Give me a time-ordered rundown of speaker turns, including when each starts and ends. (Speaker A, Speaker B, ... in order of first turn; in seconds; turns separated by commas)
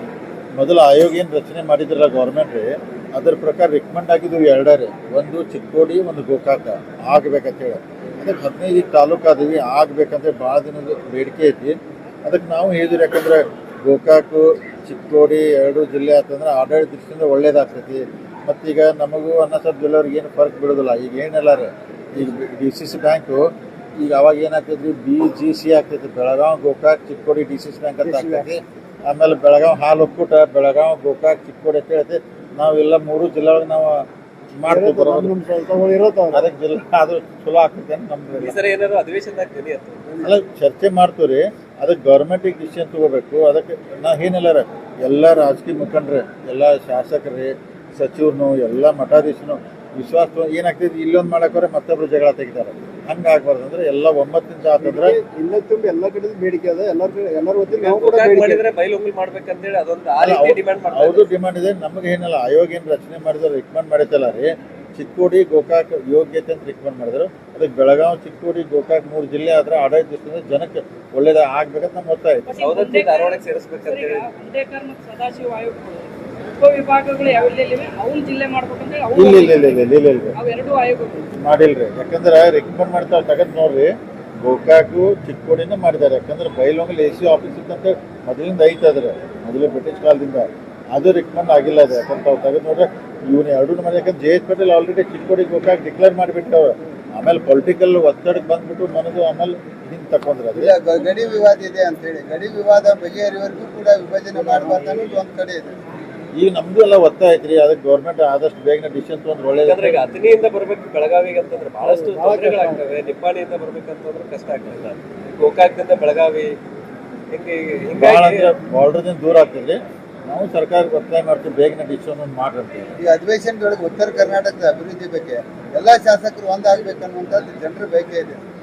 Speaker A: 0.6-35.3, Speaker B: 28.0-28.5, Speaker B: 34.7-36.5, Speaker A: 36.3-38.6, Speaker C: 38.4-40.3, Speaker A: 40.2-55.2, Speaker B: 54.8-58.6, Speaker C: 57.8-61.3, Speaker A: 60.2-72.6, Speaker D: 72.5-81.3, Speaker C: 72.6-74.3, Speaker A: 79.1-80.4, Speaker A: 81.4-83.9, Speaker A: 84.4-100.7, Speaker E: 100.6-105.8, Speaker A: 104.3-105.2, Speaker A: 106.3-110.0, Speaker C: 109.6-116.5, Speaker B: 111.8-112.8, Speaker C: 117.3-118.5, Speaker A: 118.0-122.9, Speaker E: 123.0-128.4